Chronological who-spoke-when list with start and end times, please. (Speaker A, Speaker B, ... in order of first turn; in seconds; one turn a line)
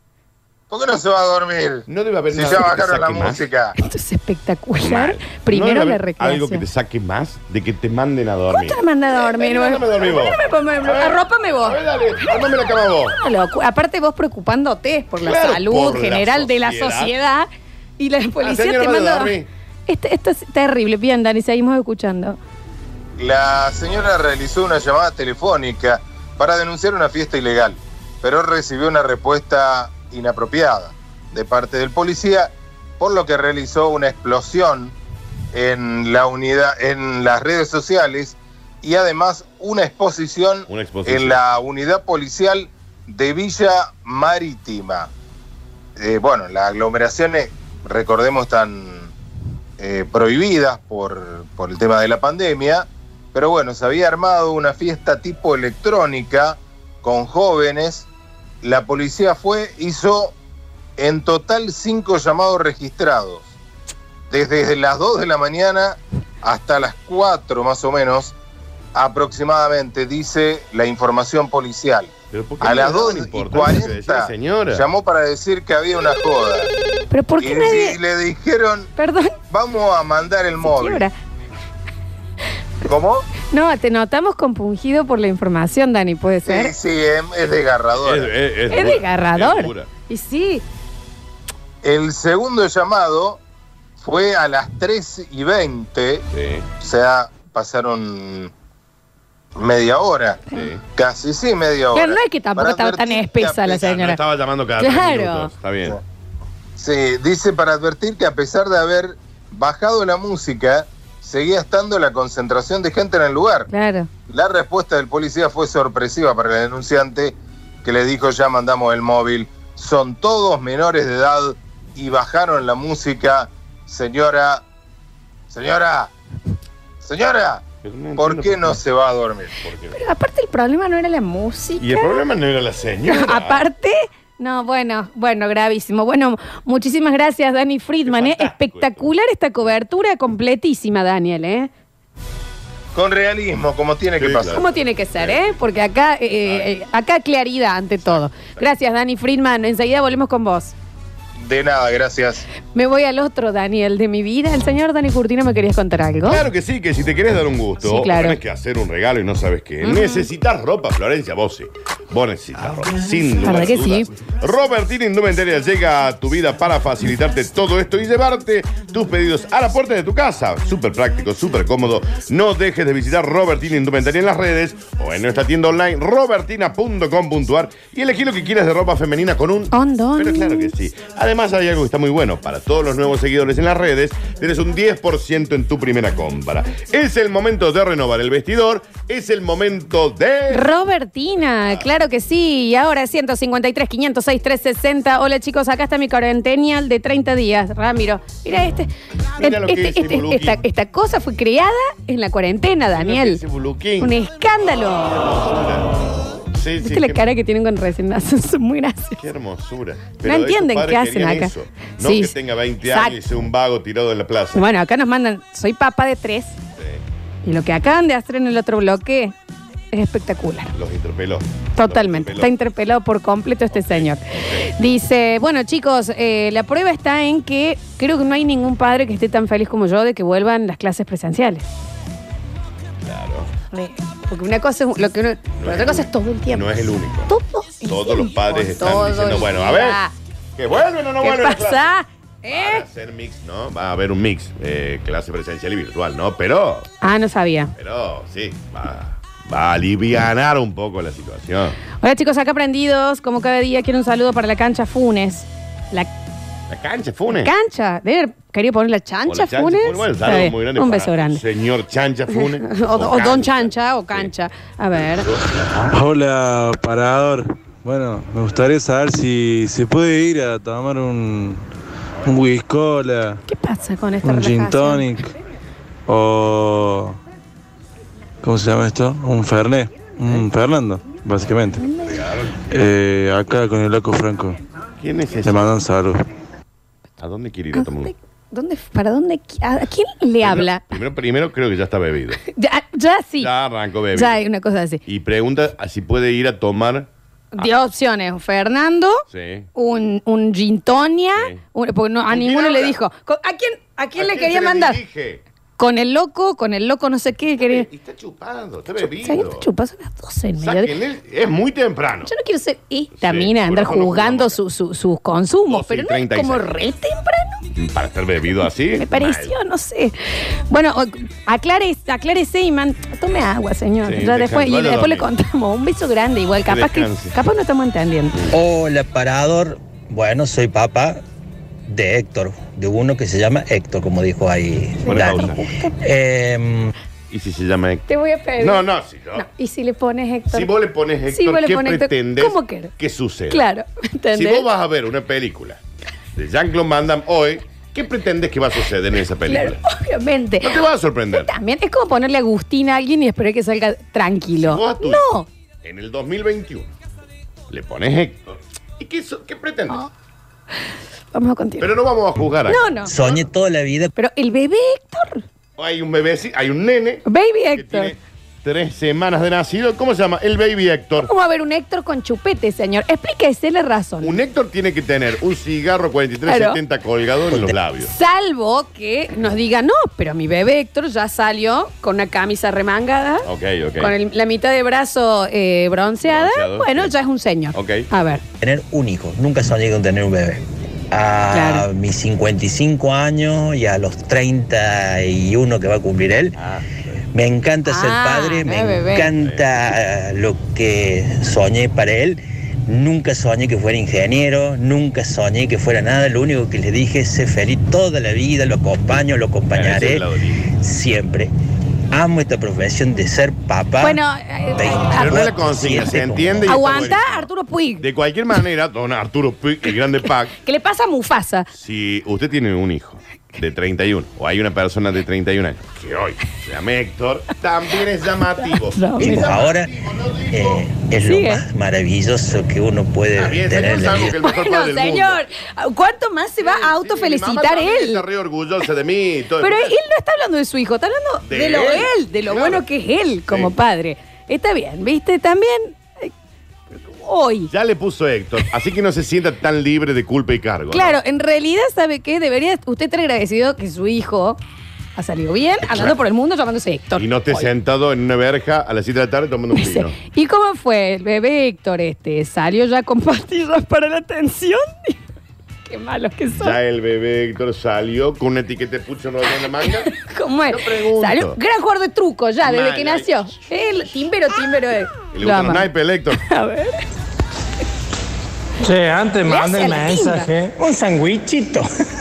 Speaker A: 0.7-3.7
Speaker B: 1.9-3.4
Speaker C: 3.8-6.6
Speaker B: 4.8-13.2
Speaker C: 8.5-12.3
Speaker C: 13.1-17.5
Speaker B: 15.2-17.1
Speaker C: 18.0-19.3
Speaker B: 18.4-19.5
Speaker C: 19.9-22.4
Speaker A: 23.2-34.9
Speaker A: 35.5-45.1
Speaker B: 40.7-41.4
Speaker A: 46.0-49.1
Speaker A: 49.8-58.1
Speaker A: 58.6-60.3
Speaker A: 61.0-63.5
Speaker A: 64.3-68.3
Speaker A: 68.9-76.7
Speaker B: 72.3-74.9
Speaker C: 77.1-78.0
Speaker A: 77.4-78.9
Speaker C: 79.0-79.3
Speaker A: 79.5-81.1
Speaker C: 80.6-81.1
Speaker A: 82.8-83.3
Speaker C: 83.4-86.7
Speaker A: 86.4-88.3
Speaker B: 88.0-89.9
Speaker C: 88.7-90.6
Speaker A: 91.8-93.4
Speaker A: 94.0-96.2
Speaker B: 96.3-96.7
Speaker A: 96.8-98.5
Speaker A: 99.5-103.8
Speaker B: 100.5-100.8
Speaker C: 101.9-104.2
Speaker B: 103.7-106.0
Speaker C: 104.8-105.5
Speaker A: 106.8-113.7
Speaker C: 113.7-114.1
Speaker A: 114.3-124.6
Speaker A: 125.5-126.1
Speaker A: 127.0-127.6
Speaker B: 127.8-128.8
Speaker A: 128.2-129.5
Speaker B: 129.6-130.0
Speaker C: 129.9-132.2
Speaker B: 131.8-133.6
Speaker C: 133.1-141.7
Speaker B: 138.1-139.1
Speaker A: 142.9-144.6
Speaker B: 144.2-145.5
Speaker C: 144.5-150.7
Speaker B: 146.4-146.8
Speaker B: 148.0-148.6
Speaker A: 151.4-152.4
Speaker C: 152.7-156.4
Speaker B: 156.3-190.7
Speaker C: 157.8-158.4
Speaker C: 159.8-160.3
Speaker C: 163.4-164.1
Speaker C: 179.7-180.7
Speaker C: 190.5-203.4
Speaker B: 191.6-191.9
Speaker B: 199.4-200.6
Speaker B: 202.9-204.2
Speaker C: 204.0-205.3
Speaker B: 205.0-207.2
Speaker C: 206.8-209.2
Speaker B: 209.2-214.7
Speaker C: 210.2-213.2
Speaker C: 214.5-216.5
Speaker B: 216.7-217.0
Speaker C: 217.4-219.3
Speaker C: 219.9-220.7
Speaker B: 220.7-222.5
Speaker C: 221.8-231.7
Speaker B: 223.7-224.7
Speaker B: 233.0-233.5
Speaker C: 233.7-236.7
Speaker B: 235.6-240.0
Speaker C: 237.3-240.1
Speaker B: 240.6-241.9
Speaker C: 241.2-242.8
Speaker B: 242.5-246.9
Speaker C: 247.0-247.7
Speaker B: 247.8-251.8
Speaker C: 252.0-256.1
Speaker B: 256.7-257.5
Speaker C: 257.3-261.4
Speaker B: 259.2-264.3
Speaker C: 262.3-265.3
Speaker B: 264.9-265.9
Speaker D: 265.9-271.6
Speaker D: 272.2-273.4
Speaker C: 273.5-275.1
Speaker D: 274.2-275.3
Speaker D: 276.1-277.2
Speaker D: 278.4-281.8
Speaker C: 281.8-282.2
Speaker B: 281.9-282.5
Speaker D: 282.6-284.6
Speaker B: 285.0-285.8
Speaker D: 285.4-286.2
Speaker B: 287.2-288.1
Speaker C: 287.7-290.8
Speaker B: 290.4-292.4
Speaker C: 292.4-293.5
Speaker B: 293.4-294.4
Speaker C: 294.1-295.0
Speaker B: 295.1-297.7
Speaker C: 297.5-305.0
Speaker B: 299.3-299.7
Speaker B: 302.3-303.0
Speaker B: 304.1-305.4
Speaker C: 305.8-307.9
Speaker B: 307.6-309.7
Speaker C: 309.0-310.9
Speaker B: 310.6-312.3
Speaker C: 312.2-317.6
Speaker B: 313.1-314.6
Speaker B: 315.7-316.7
Speaker B: 317.7-319.5
Speaker C: 318.9-320.1
Speaker C: 320.7-328.4
Speaker B: 324.0-325.3
Speaker B: 326.6-327.4
Speaker E: 328.5-331.2
Speaker E: 331.9-336.9
Speaker C: 335.0-335.9
Speaker B: 335.1-335.6
Speaker B: 337.3-338.1
Speaker C: 338.1-340.7
Speaker B: 338.6-339.5
Speaker B: 340.5-343.6
Speaker C: 341.3-342.9
Speaker C: 343.5-344.7
Speaker B: 344.3-345.8
Speaker B: 346.3-349.8
Speaker C: 349.5-355.5
Speaker B: 350.6-351.5
Speaker B: 354.6-355.2
Speaker B: 355.8-356.9
Speaker B: 357.7-360.1
Speaker C: 361.3-361.9
Speaker B: 361.8-362.9
Speaker C: 362.7-363.4
Speaker E: 363.1-364.1
Speaker C: 364.1-365.4
Speaker B: 365.8-371.3
Speaker C: 367.2-368.1
Speaker C: 371.2-374.4
Speaker B: 374.2-378.1
Speaker C: 376.4-376.8
Speaker C: 378.0-383.5
Speaker B: 383.4-384.1
Speaker C: 384.0-388.4
Speaker B: 386.2-387.1
Speaker B: 387.7-388.1
Speaker E: 388.6-396.6
Speaker C: 391.5-391.9
Speaker B: 396.6-397.1
Speaker E: 397.3-411.5
Speaker C: 397.9-399.3
Speaker B: 409.7-410.7
Speaker E: 412.1-414.2
Speaker C: 414.0-415.6
Speaker E: 414.7-417.1
Speaker B: 415.2-417.5
Speaker C: 416.7-418.0
Speaker B: 418.0-420.5
Speaker C: 420.5-421.7
Speaker B: 421.7-430.9
Speaker C: 428.6-429.4
Speaker E: 429.2-429.9
Speaker E: 430.5-434.3
Speaker C: 431.2-431.6
Speaker B: 433.4-435.4
Speaker C: 434.3-438.2
Speaker B: 436.6-440.0
Speaker C: 439.6-446.3
Speaker B: 441.4-442.8
Speaker B: 443.5-443.7
Speaker C: 446.9-447.7
Speaker B: 447.7-451.2
Speaker C: 450.9-454.6
Speaker C: 455.1-457.7
Speaker B: 455.8-456.1
Speaker B: 457.1-460.2
Speaker C: 459.7-465.2
Speaker C: 465.8-466.8
Speaker B: 466.5-470.1
Speaker C: 469.8-477.0
Speaker B: 470.7-471.6
Speaker B: 472.6-473.5
Speaker B: 475.3-476.4
Speaker F: 478.8-481.9
Speaker C: 479.4-480.5